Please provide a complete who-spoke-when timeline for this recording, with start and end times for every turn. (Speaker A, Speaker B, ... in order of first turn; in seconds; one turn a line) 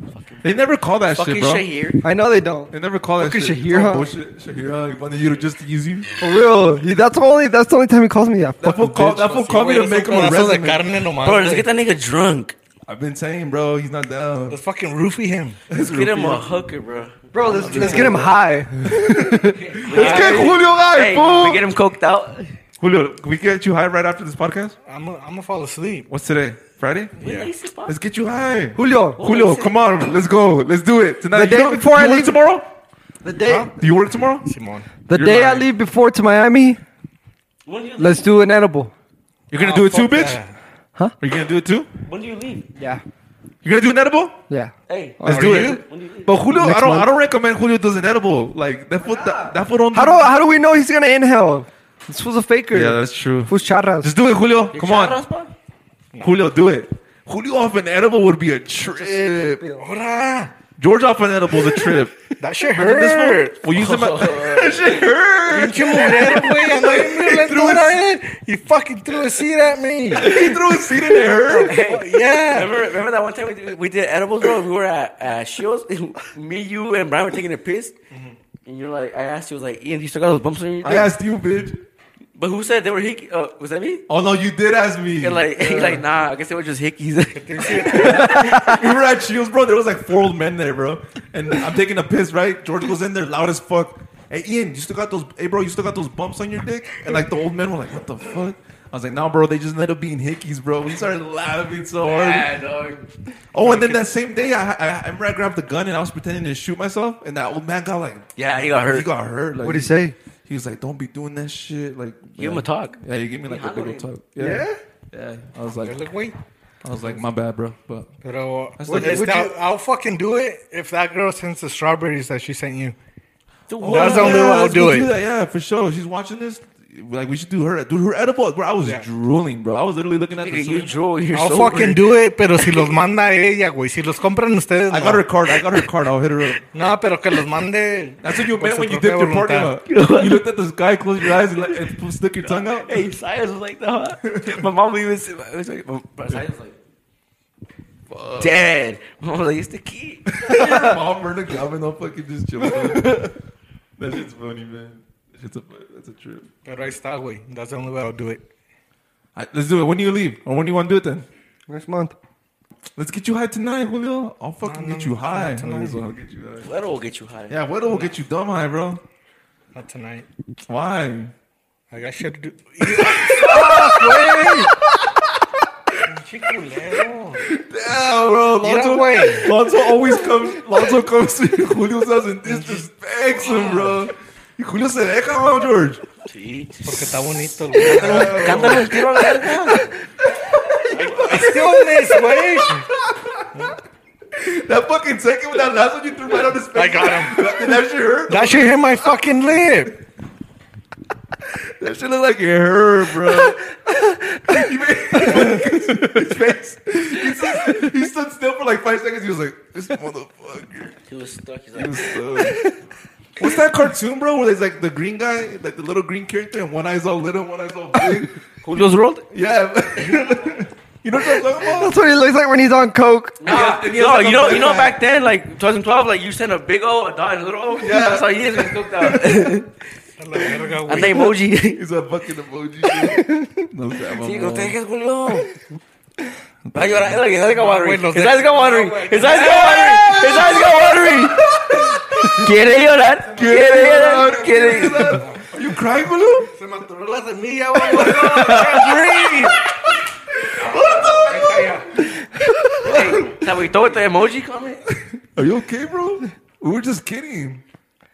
Speaker A: 0.1-0.4
Speaker B: 0.4-1.7
Speaker A: 1.1-2.0
Speaker C: 2.0-4.2
Speaker B: 2.7-6.1
Speaker C: 6.2-9.4
Speaker B: 8.6-10.8
Speaker D: 9.3-11.7
Speaker A: 11.2-12.6
Speaker B: 12.9-14.6
Speaker D: 14.5-15.6
Speaker B: 15.7-16.5
Speaker A: 15.8-18.3
Speaker C: 17.3-19.6
Speaker B: 17.4-18.3
Speaker D: 17.8-18.1
Speaker B: 18.9-21.7
Speaker A: 19.5-22.5
Speaker D: 19.9-20.6
Speaker B: 22.8-24.8
Speaker D: 24.9-26.1
Speaker B: 26.1-27.1
Speaker A: 27.2-28.0
Speaker D: 27.2-27.5
Speaker B: 27.9-32.7
Speaker C: 28.7-29.2
Speaker A: 29.2-29.8
Speaker C: 31.3-32.4
Speaker C: 33.2-33.7
Speaker D: 33.5-33.7
Speaker B: 33.8-34.5
Speaker D: 34.4-35.0
Speaker C: 35.1-36.8
Speaker B: 35.1-35.7
Speaker A: 37.6-38.3
Speaker C: 38.0-38.9
Speaker B: 39.5-40.4
Speaker D: 39.5-40.5
Speaker B: 41.2-41.9
Speaker A: 42.0-42.7
Speaker C: 42.8-43.0
Speaker B: 43.6-44.4
Speaker C: 44.5-45.7
Speaker A: 44.9-46.4
Speaker B: 45.2-50.3
Speaker D: 45.3-45.8
Speaker C: 46.5-47.1
Speaker C: 49.0-54.1
Speaker B: 52.7-55.2
Speaker A: 54.7-55.5
Speaker B: 56.2-59.6
Speaker C: 59.6-59.9
Speaker D: 59.8-60.5
Speaker B: 60.8-62.1
Speaker D: 62.4-63.6
Speaker B: 62.7-68.0
Speaker A: 63.7-65.1
Speaker D: 65.5-70.5
Speaker B: 70.1-71.8
Speaker D: 71.4-72.8
Speaker A: 71.6-77.9
Speaker A: 78.6-81.1
Speaker B: 80.8-81.8
Speaker A: 82.3-84.0
Speaker B: 84.1-85.8
Speaker A: 85.2-88.9
Speaker D: 85.6-86.0
Speaker D: 87.3-88.5
Speaker B: 87.8-102.5
Speaker A: 102.0-103.1
Speaker B: 103.5-116.0
Speaker D: 103.6-104.1
Speaker A: 108.3-109.1
Speaker C: 109.6-110.2
Speaker A: 112.4-114.1
Speaker C: 114.4-114.8
Speaker D: 115.8-116.4
Speaker B: 116.8-118.1
Speaker D: 118.2-123.0
Speaker B: 118.8-119.3
Speaker C: 118.9-119.5
Speaker A: 123.7-124.6
Speaker B: 123.8-130.9
Speaker D: 123.8-125.1
Speaker A: 130.4-132.0
Speaker D: 131.3-135.2
Speaker B: 134.9-136.6
Speaker D: 136.7-139.8
Speaker B: 138.2-143.0
Speaker A: 139.8-140.4
Speaker A: 141.5-141.8
Speaker A: 142.8-146.8
Speaker B: 144.3-144.7
Speaker B: 148.1-148.5
Speaker A: 148.4-150.6
Speaker B: 150.3-153.3
Speaker B: 154.0-156.5
Speaker D: 156.6-158.4
Speaker B: 159.3-161.3
Speaker C: 161.7-162.1
Speaker B: 162.9-166.7
Speaker D: 164.6-166.1
Speaker A: 166.6-167.6
Speaker B: 167.5-169.0
Speaker D: 169.7-170.3
Speaker B: 170.7-171.3
Speaker D: 171.9-174.7
Speaker B: 172.8-175.2
Speaker D: 176.1-177.4
Speaker B: 177.4-186.0
Speaker D: 178.6-179.6
Speaker D: 182.4-182.8
Speaker D: 183.4-184.0
Speaker A: 186.2-187.2
Speaker D: 186.8-188.9
Speaker B: 187.8-189.0
Speaker A: 187.8-189.9
Speaker B: 190.6-191.8
Speaker D: 190.8-192.8
Speaker B: 192.6-193.4
Speaker B: 194.3-199.1
Speaker D: 196.7-197.8
Speaker D: 198.3-200.0
Speaker B: 201.5-203.7
Speaker C: 203.3-204.6
Speaker B: 204.5-211.0
Speaker C: 205.2-205.9
Speaker A: 211.1-212.2
Speaker B: 211.8-212.7
Speaker C: 212.4-212.7
Speaker B: 213.4-218.4
Speaker A: 218.6-219.3
Speaker B: 219.3-222.1
Speaker C: 221.5-223.5
Speaker B: 223.4-224.9
Speaker A: 223.4-229.8
Speaker B: 227.8-229.6
Speaker D: 230.2-231.3
Speaker A: 230.8-231.8
Speaker B: 231.7-234.8
Speaker C: 232.9-233.6
Speaker A: 234.2-235.6
Speaker B: 236.7-237.2
Speaker A: 236.7-245.2
Speaker D: 237.5-240.0
Speaker B: 239.2-242.5
Speaker B: 243.3-246.5
Speaker D: 243.8-245.4
Speaker D: 246.5-249.6
Speaker B: 247.8-249.6
Speaker B: 250.5-251.7
Speaker D: 250.6-251.9
Speaker C: 252.3-252.8
Speaker B: 252.7-253.4
Speaker A: 252.8-254.8
Speaker B: 255.0-257.6